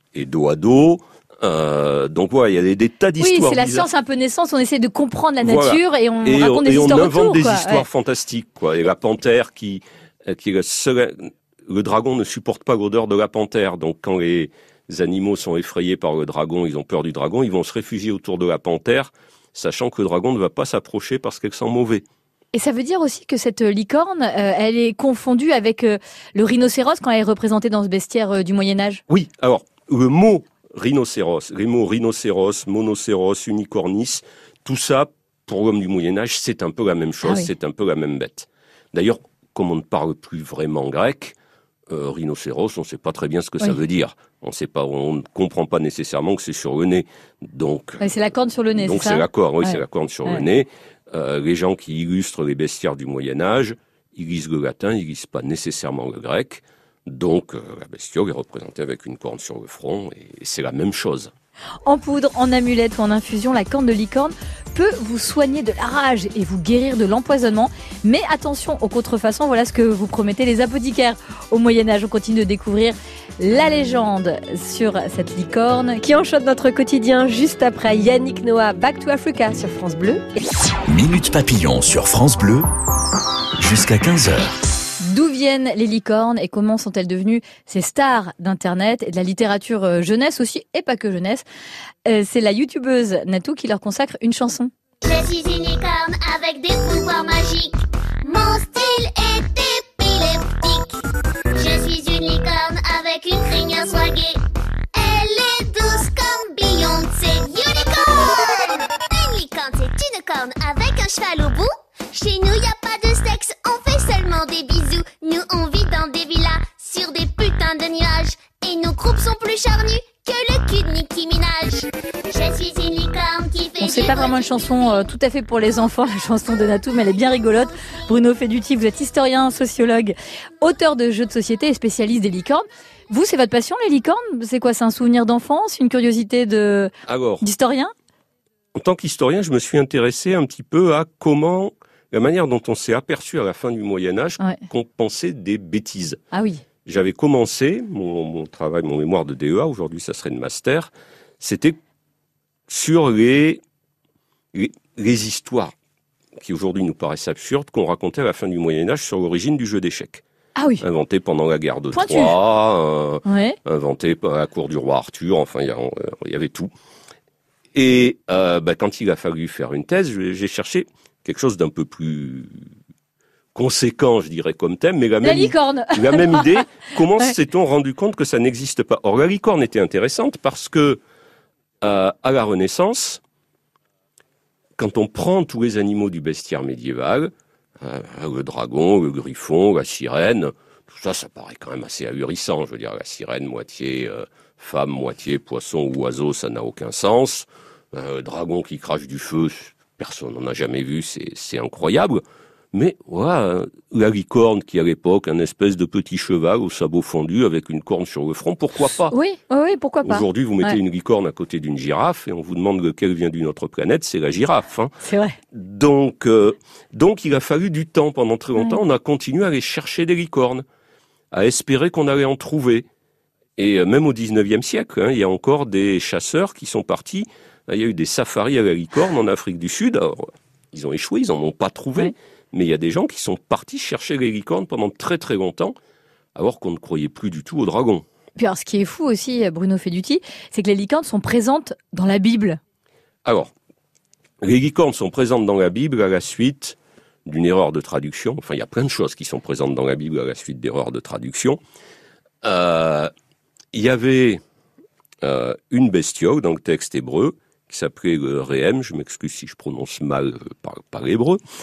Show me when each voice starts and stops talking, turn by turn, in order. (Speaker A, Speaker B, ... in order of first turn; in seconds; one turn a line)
Speaker A: 0.1-3.9
Speaker B: 3.2-7.8
Speaker A: 5.4-22.0
Speaker B: 22.5-29.0
Speaker A: 29.1-41.4
Speaker B: 37.2-37.5
Speaker A: 41.9-48.1
Speaker B: 48.0-50.4
Speaker A: 48.7-61.3
Speaker B: 61.8-76.0
Speaker C: 76.0-80.2
Speaker D: 80.9-82.7
Speaker D: 83.6-84.6
Speaker B: 85.0-91.4
Speaker B: 92.0-94.7
Speaker E: 95.0-101.0
Speaker E: 101.5-104.4
Speaker E: 104.9-125.0
Speaker B: 123.8-137.9
Speaker A: 137.1-137.5
Speaker A: 138.7-146.2
Speaker B: 146.3-146.6
Speaker A: 146.8-151.8
Speaker A: 152.7-153.6
Speaker A: 154.5-155.7
Speaker A: 156.4-160.2
Speaker B: 160.6-160.8
Speaker A: 160.8-166.7
Speaker B: 161.9-162.3
Speaker B: 163.2-163.6
Speaker A: 167.7-172.6
Speaker A: 173.5-181.0
Speaker B: 175.2-177.3
Speaker A: 181.8-183.2
Speaker A: 184.8-209.1
Speaker B: 209.1-210.8
Speaker A: 210.0-214.9
Speaker B: 215.0-215.4
Speaker A: 215.5-220.6
Speaker A: 221.3-222.9
Speaker A: 223.6-235.8
Speaker A: 236.3-238.0
Speaker B: 238.3-242.6
Speaker A: 243.2-243.5
Speaker A: 244.4-251.6
Speaker A: 252.4-253.1
Speaker A: 253.7-254.4
Speaker A: 255.2-261.4